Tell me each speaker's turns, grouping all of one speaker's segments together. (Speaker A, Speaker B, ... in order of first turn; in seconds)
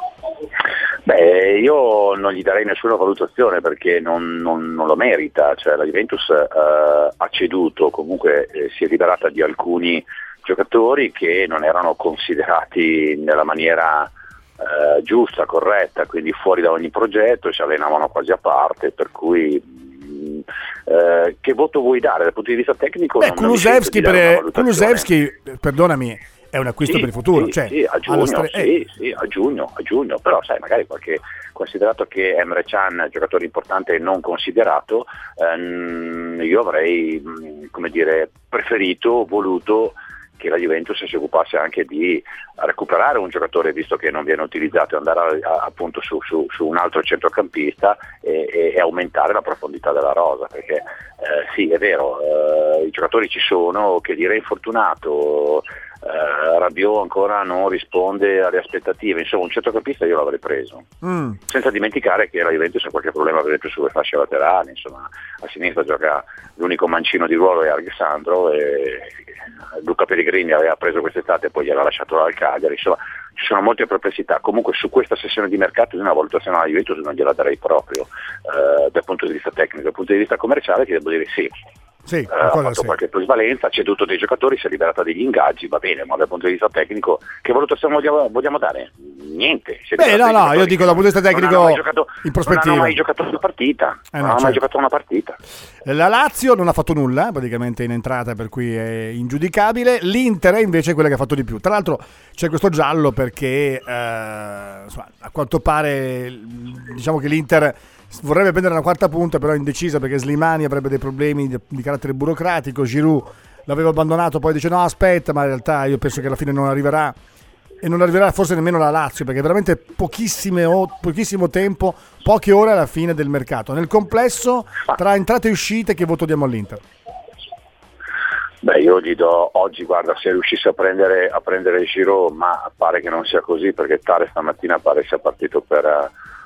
Speaker A: 1.0-25.0, 26.9-60.9, 61.5-69.2, 69.8-81.5, 82.3-95.4, 128.6-136.1
Speaker B: 23.2-28.7, 61.0-61.4, 82.0-83.0, 90.0-93.0, 94.1-94.6, 95.8-117.2, 117.8-126.8